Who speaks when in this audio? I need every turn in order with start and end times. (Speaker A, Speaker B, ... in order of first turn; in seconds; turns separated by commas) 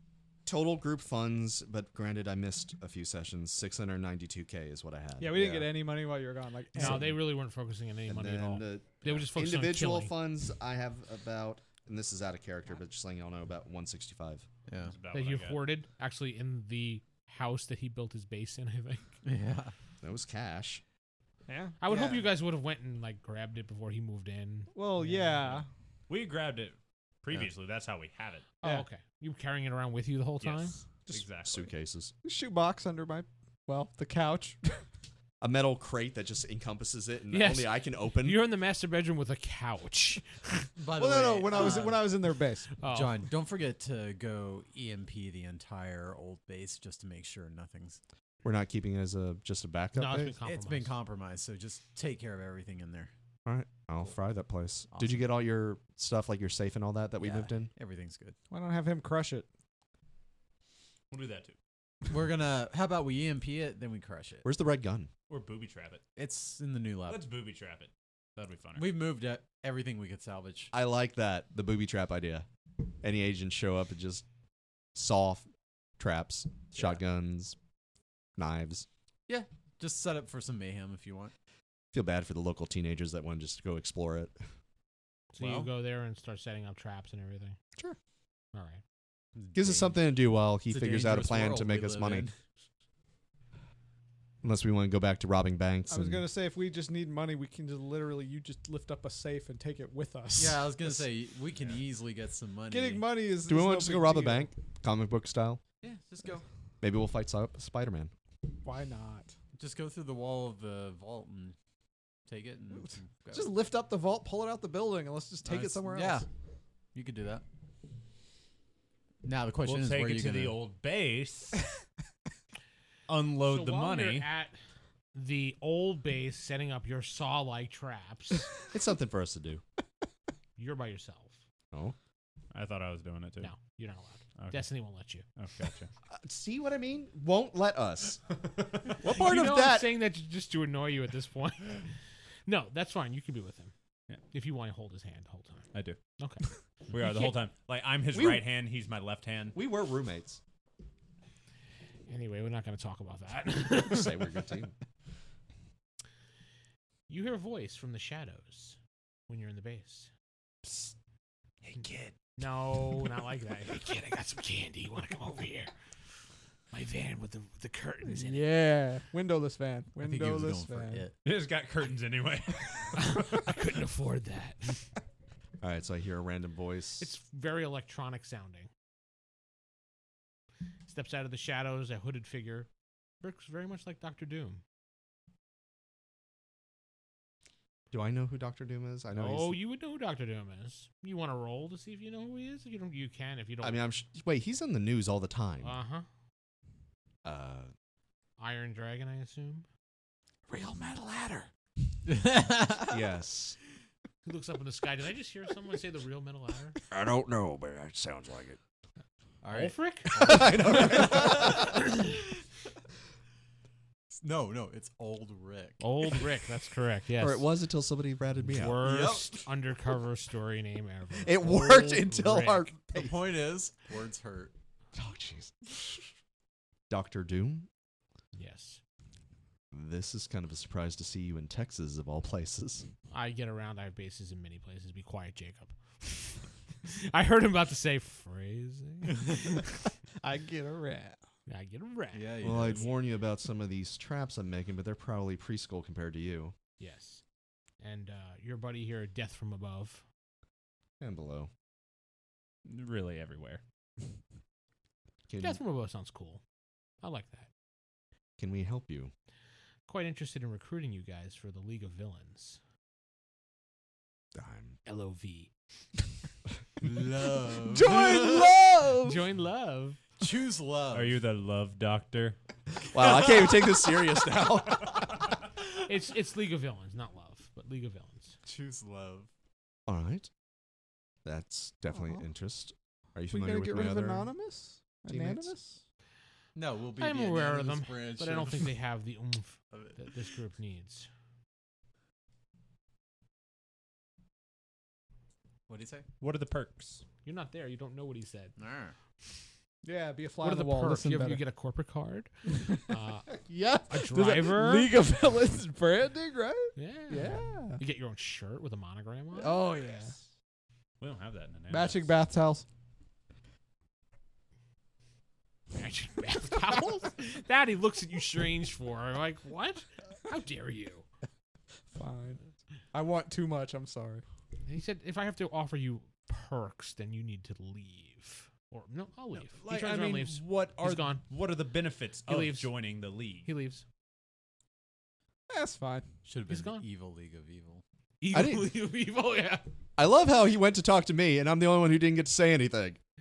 Speaker A: 0.5-5.7, Speaker B: 5.2-7.1, Speaker C: 6.7-10.2, Speaker A: 8.1-14.4, Speaker D: 14.7-14.9, Speaker E: 14.9-15.6, Speaker C: 15.1-19.1, Speaker D: 19.2-19.7, Speaker A: 20.0-20.8, Speaker B: 21.5-22.3, Speaker C: 21.8-25.5, Speaker B: 24.7-25.7, Speaker E: 26.1-28.5, Speaker C: 28.6-30.8, Speaker E: 30.4-31.7, Speaker A: 31.1-32.1, Speaker B: 32.2-34.8, Speaker A: 35.4-38.4, Speaker C: 37.3-40.6, Speaker D: 40.8-42.2, Speaker B: 41.0-42.7, Speaker C: 42.8-43.2, Speaker D: 42.9-48.0, Speaker A: 48.4-50.3, Speaker C: 49.9-51.0, Speaker D: 50.4-53.1, Speaker A: 53.5-57.7, Speaker D: 54.9-55.2, Speaker D: 57.2-58.4, Speaker B: 58.5-59.5, Speaker E: 61.1-61.5, Speaker D: 62.1-64.5, Speaker A: 64.4-65.1, Speaker E: 65.3-66.0, Speaker D: 66.2-67.2, Speaker E: 67.1-68.9, Speaker D: 68.8-70.7, Speaker A: 70.7-72.5, Speaker A: 73.0-74.2, Speaker A: 74.9-75.5, Speaker A: 76.0-77.5, Speaker D: 76.7-77.0, Speaker A: 78.3-78.8, Speaker D: 79.3-81.3, Speaker A: 81.9-84.4, Speaker C: 85.3-87.6, Speaker D: 85.4-85.7, Speaker C: 88.5-88.8, Speaker D: 89.3-90.1, Speaker A: 89.5-92.3, Speaker D: 90.7-92.3, Speaker A: 94.4-96.2, Speaker B: 95.9-101.0, Speaker D: 100.3-103.0, Speaker B: 102.7-104.5, Speaker A: 103.5-105.6, Speaker D: 105.8-106.5, Speaker A: 106.8-108.1, Speaker B: 108.6-109.3, Speaker D: 109.6-111.5, Speaker D: 112.3-113.5, Speaker B: 113.3-116.2, Speaker D: 115.4-116.2, Speaker D: 116.9-117.4, Speaker D: 119.2-120.6, Speaker E: 119.6-121.6, Speaker E: 123.1-124.3, Speaker C: 123.4-124.6, Speaker C: 125.1-128.5, Speaker A: 128.7-129.6, Speaker C: 130.6-131.4, Speaker E: 132.5-133.5, Speaker C: 133.4-135.2, Speaker E: 134.4-134.7, Speaker E: 135.3-135.9, Speaker A: 136.1-138.2, Speaker A: 139.0-140.0, Speaker C: 139.0-141.9, Speaker C: 142.4-143.7, Speaker C: 144.3-147.3, Speaker E: 145.7-146.0, Speaker E: 146.9-149.6, Speaker A: 148.1-148.4, Speaker A: 149.5-150.4, Speaker C: 152.1-154.3, Speaker A: 153.8-154.7, Speaker C: 157.1-158.8, Speaker C: 159.3-160.1, Speaker E: 161.6-162.2, Speaker C: 162.4-165.7, Speaker C: 166.7-168.4, Speaker B: 168.1-171.0, Speaker D: 170.0-171.2, Speaker E: 171.2-173.4, Speaker C: 172.9-174.9, Speaker A: 175.6-177.1, Speaker C: 177.0-178.7, Speaker C: 180.8-182.7, Speaker C: 183.2-184.6, Speaker A: 187.9-189.6, Speaker C: 189.1-193.8, Speaker A: 193.6-195.7, Speaker C: 195.6-196.1, Speaker A: 197.2-197.7, Speaker C: 198.4-199.7, Speaker A: 201.0-201.5, Speaker D: 202.1-202.9, Speaker A: 202.9-203.6, Speaker C: 204.2-206.8, Speaker A: 206.9-208.6, Speaker D: 209.4-211.9, Speaker C: 209.5-210.5, Speaker A: 210.2-211.8, Speaker D: 214.1-215.9, Speaker C: 215.8-217.5, Speaker A: 217.2-218.8, Speaker C: 218.4-222.7, Speaker D: 218.8-219.4, Speaker A: 221.2-223.2, Speaker D: 222.9-224.5, Speaker A: 224.9-226.0, Speaker A: 226.9-227.7, Speaker C: 228.3-228.8, Speaker A: 229.7-232.9, Speaker C: 233.1-239.6, Speaker B: 240.2-241.2, Speaker C: 241.5-242.9, Speaker D: 242.1-242.9, Speaker A: 242.4-246.5, Speaker C: 246.8-247.2, Speaker C: 247.8-250.0, Speaker A: 251.0-251.5, Speaker E: 252.7-253.6, Speaker A: 255.3-255.6, Speaker C: 255.4-256.4, Speaker C: 257.0-257.5, Speaker A: 258.4-259.1, Speaker C: 259.9-262.6, Speaker A: 264.3-264.8, Speaker C: 264.9-265.5, Speaker D: 266.8-268.5, Speaker B: 267.7-269.2, Speaker C: 269.0-270.0, Speaker D: 270.2-271.2, Speaker E: 270.9-272.4, Speaker A: 272.9-275.2, Speaker C: 275.8-278.4, Speaker D: 278.4-279.3, Speaker A: 279.9-280.3, Speaker A: 281.2-284.3, Speaker B: 283.3-285.7, Speaker A: 285.1-285.6, Speaker D: 286.5-288.8, Speaker C: 287.0-291.1, Speaker D: 289.7-290.0, Speaker D: 295.7-296.1, Speaker E: 296.2-297.0, Speaker C: 297.2-298.5, Speaker D: 298.6-298.9, Speaker B: 299.8-301.4, Speaker C: 300.4-304.9, Speaker B: 303.5-307.8, Speaker C: 306.8-309.6, Speaker B: 309.3-310.1, Speaker E: 311.0-312.1, Speaker B: 311.7-312.6, Speaker C: 315.7-321.1, Speaker B: 321.9-322.4, Speaker B: 322.9-324.2, Speaker C: 324.6-331.2, Speaker E: 329.6-333.5, Speaker C: 332.2-332.7, Speaker C: 333.4-333.8, Speaker B: 335.5-336.1, Speaker D: 336.2-337.8, Speaker C: 336.5-336.8, Speaker C: 338.2-339.7, Speaker A: 338.3-338.7, Speaker A: 339.9-343.0